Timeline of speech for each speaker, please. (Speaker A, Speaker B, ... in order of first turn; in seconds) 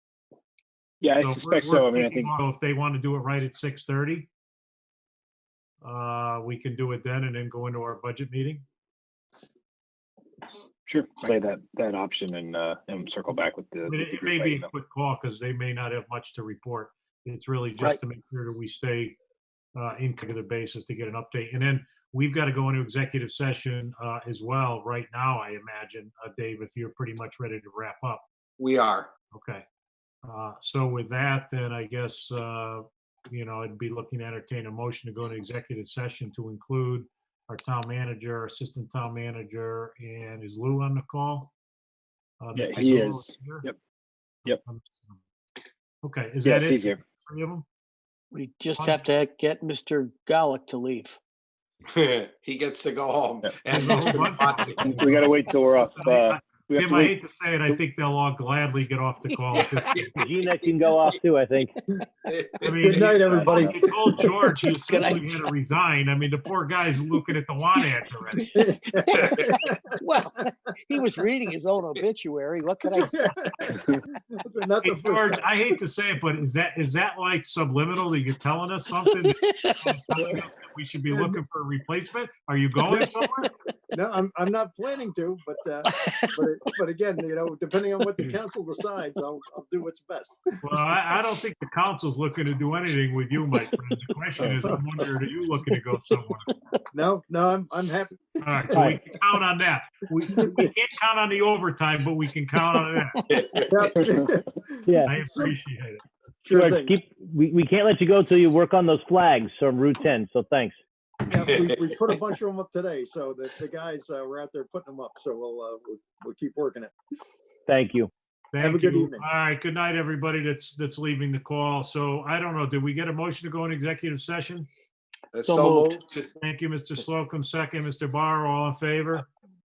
Speaker A: 1.0-2.3, 10.9-14.7, 42.5-43.7, 46.4-47.0, 54.8-57.8
Speaker B: 1.1-4.3, 5.8-8.6, 13.8-19.1, 19.8-28.2, 29.3-29.6, 30.2-41.5, 42.4-43.7, 44.5-45.2, 46.0-47.6, 53.7-60.2, 62.6-68.7, 74.8-83.5, 90.6-96.5, 98.4-103.2, 105.0-106.0, 118.5-124.7, 126.4-129.3
Speaker C: 28.6-29.1, 51.9-55.2, 59.5-60.0, 62.3-63.3, 103.3-104.0, 111.3-112.2, 125.3-126.3
Speaker D: 48.3-51.2, 64.9-65.3, 69.0-73.3, 79.1-79.8, 85.8-86.4, 125.4-126.0
Speaker E: 60.2-61.8, 98.7-99.0, 104.8-105.1, 106.5-110.7, 117.7-118.1
Speaker F: 62.8-64.1, 68.5-69.8, 72.9-75.5, 81.1-81.4, 83.9-90.5, 96.9-99.0, 103.6-105.5, 106.4-106.9, 111.3-116.9, 118.6-119.2